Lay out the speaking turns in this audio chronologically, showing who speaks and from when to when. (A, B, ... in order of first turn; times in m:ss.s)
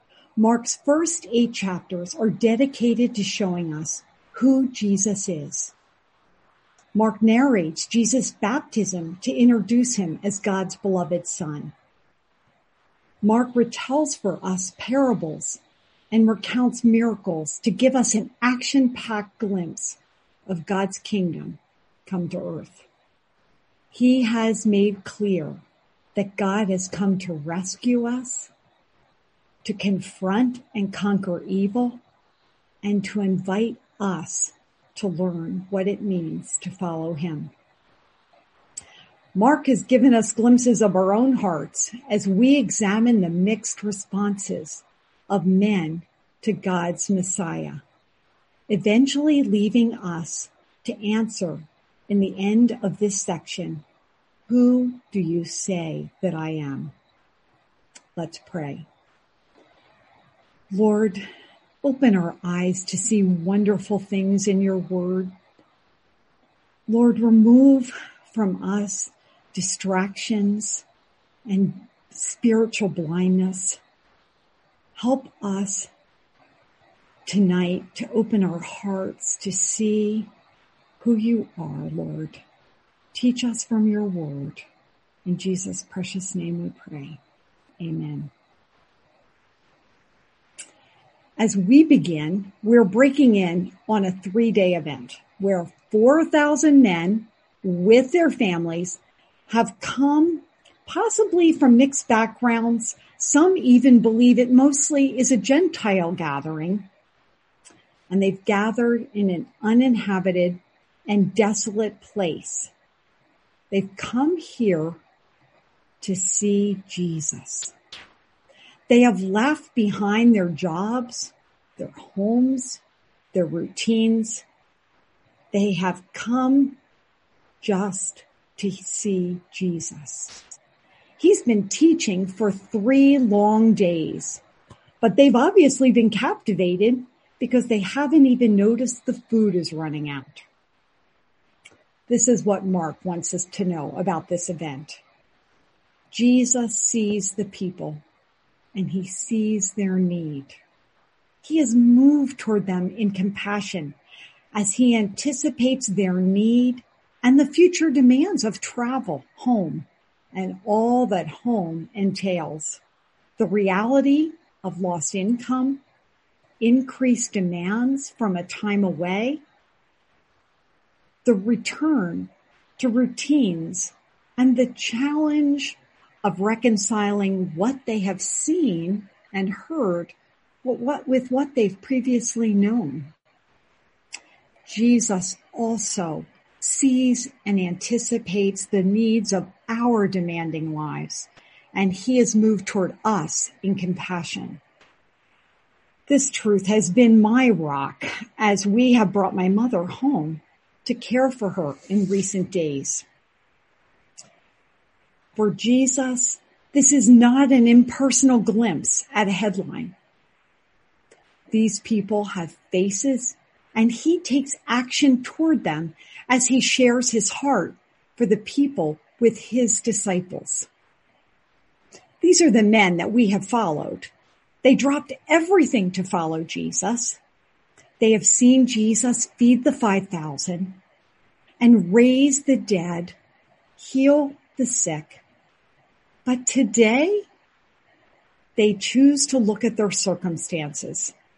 0:00.4-0:05.7 A
0:06.9-0:11.7 A
0:13.2-0:15.6 A
0:16.1-0:22.8 A
0:23.9-0:25.6 A
0:26.2-0:28.5 A
0:29.6-0:32.0 A
0:32.8-0:37.5 A
0:39.3-0:47.8 A
0:48.7-0:53.8 A
0:54.5-0:56.9 A
0:58.2-0:58.8 A
1:00.7-1:01.2 A
1:01.8-1:05.3 A
1:06.9-1:10.8 A
1:11.4-1:13.8 A
1:15.0-1:15.9 A
1:17.2-1:20.3 A
1:21.0-1:22.4 A
1:23.1-1:24.6 A
1:25.2-1:27.2 A
1:27.8-1:28.3 A
1:31.4-1:46.9 A
1:48.1-1:52.7 A
1:53.7-1:55.0 A
1:56.0-1:57.7 A
1:58.9-2:02.8 A
2:03.3-2:04.4 A
2:05.5-2:06.8 A
2:07.6-2:10.4 A
2:11.2-2:14.4 A
2:15.0-2:20.4 A
2:22.1-2:25.0 A
2:26.1-2:28.0 A
2:28.7-2:30.6 A
2:31.4-2:34.0 A
2:34.5-2:42.8 A
2:43.4-2:45.8 A
2:46.6-2:49.4 A
2:51.2-3:03.1 A
3:04.6-3:14.6 A
3:16.1-3:23.0 A
3:25.4-3:29.9 A
3:31.5-3:40.7 A
3:42.2-3:44.1 A
3:44.6-3:47.2 A
3:48.0-3:50.8 A
3:51.6-3:53.2 A
3:53.8-3:55.2 A
3:56.2-3:57.2 A
3:58.6-4:01.1 A